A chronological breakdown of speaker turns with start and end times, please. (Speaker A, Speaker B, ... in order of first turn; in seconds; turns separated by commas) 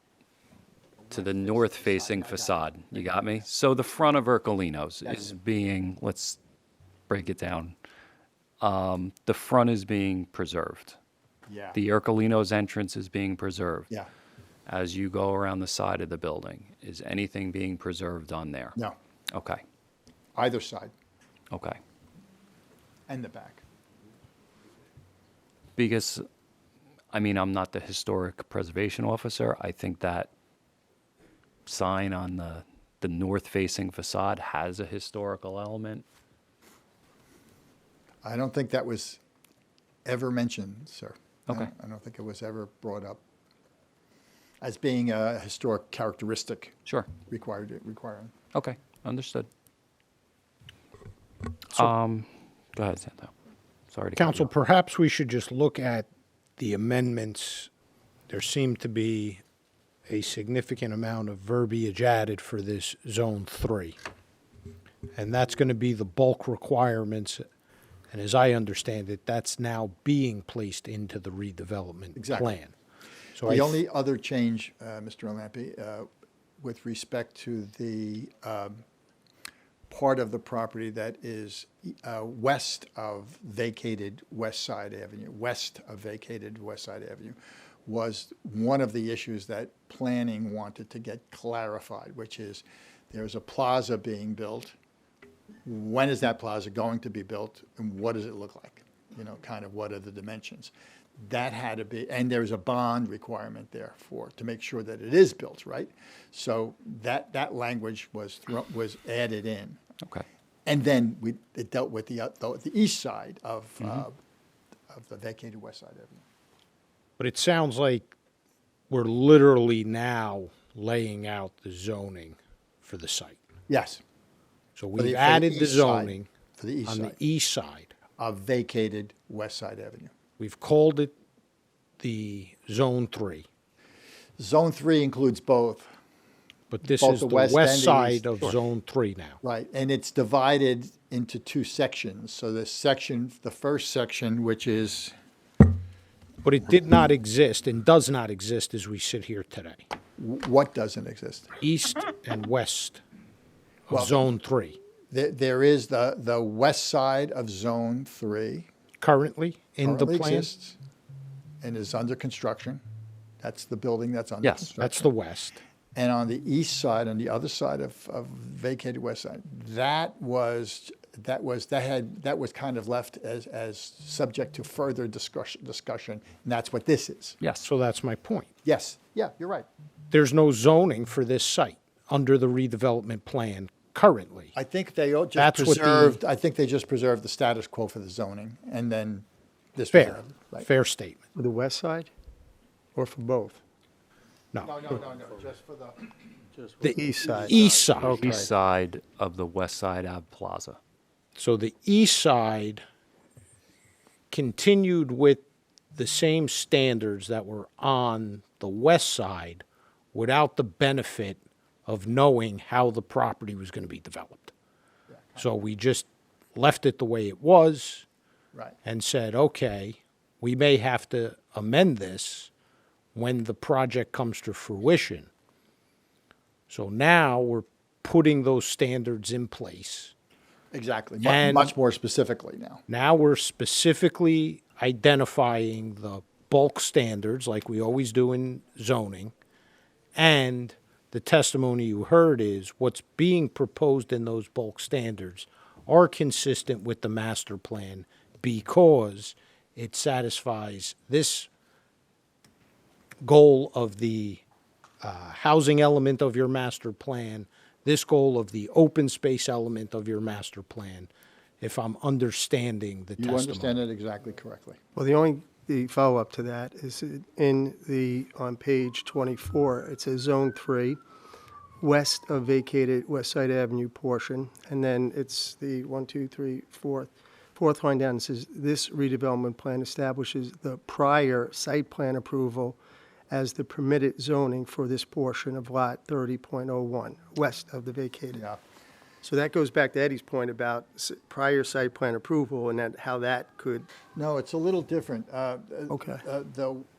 Speaker A: 1.0-3.5, Speaker B: 1.1-6.4, Speaker A: 5.1-5.3, Speaker B: 7.1-7.8, Speaker B: 8.6-11.0, Speaker A: 11.5-11.8, Speaker B: 11.7-13.9, Speaker B: 14.7-18.8, Speaker B: 19.3-19.6, Speaker A: 20.4-20.9, Speaker B: 21.5-21.8, Speaker A: 23.1-23.6, Speaker B: 25.8-26.2, Speaker B: 27.1-30.3, Speaker B: 31.7-36.0, Speaker A: 38.2-39.2, Speaker A: 40.0-43.2, Speaker A: 44.6-46.8, Speaker B: 46.9-47.1, Speaker A: 47.3-48.3, Speaker B: 48.5-49.5, Speaker B: 51.7-53.3, Speaker B: 53.9-54.5, Speaker C: 54.2-57.7, Speaker C: 58.3-59.4, Speaker C: 60.1-64.0, Speaker C: 65.2-67.4, Speaker C: 68.1-72.7, Speaker A: 72.2-72.5, Speaker C: 73.4-73.8, Speaker A: 73.5-76.1, Speaker A: 76.6-78.8, Speaker A: 79.9-94.8, Speaker A: 95.7-109.8, Speaker A: 110.7-114.2, Speaker A: 114.9-116.2, Speaker C: 117.2-118.1, Speaker C: 118.9-123.4, Speaker A: 123.7-124.0, Speaker C: 124.8-126.3, Speaker A: 125.0-127.2, Speaker C: 126.8-127.9, Speaker A: 128.2-130.1, Speaker C: 130.4-131.1, Speaker C: 132.0-133.5, Speaker A: 134.4-135.9, Speaker C: 136.7-139.4, Speaker A: 136.9-138.6, Speaker A: 139.4-145.1, Speaker C: 146.4-149.8, Speaker A: 150.2-151.5, Speaker C: 151.6-153.0, Speaker C: 153.9-154.8, Speaker A: 153.9-154.3, Speaker A: 155.1-158.7, Speaker C: 159.0-160.5, Speaker A: 159.8-160.8, Speaker A: 161.6-162.8, Speaker A: 163.4-165.1, Speaker B: 164.4-164.7, Speaker C: 164.8-165.6, Speaker A: 165.9-177.4, Speaker B: 177.4-177.7, Speaker C: 177.6-178.5, Speaker A: 178.6-179.7, Speaker C: 180.1-184.6, Speaker A: 184.6-190.7, Speaker C: 185.4-186.2, Speaker C: 189.9-191.2, Speaker D: 191.3-192.1, Speaker D: 192.9-193.6, Speaker A: 194.6-196.1, Speaker D: 196.8-198.4, Speaker C: 196.8-198.5, Speaker A: 197.4-198.2, Speaker B: 198.0-200.8, Speaker C: 201.4-202.8, Speaker C: 204.3-205.4, Speaker C: 205.9-214.5, Speaker A: 215.1-215.5, Speaker C: 215.4-218.1, Speaker C: 218.8-222.5, Speaker C: 223.1-225.3, Speaker C: 226.7-230.1, Speaker A: 230.7-232.8, Speaker C: 231.2-231.8, Speaker C: 232.9-239.3, Speaker C: 240.2-251.5, Speaker C: 253.2-254.4, Speaker C: 255.0-263.8, Speaker A: 263.2-264.8, Speaker D: 265.0-271.0, Speaker D: 271.8-282.8, Speaker D: 283.3-288.4, Speaker A: 288.3-288.6, Speaker D: 289.2-293.9, Speaker A: 294.1-296.9, Speaker D: 295.9-296.2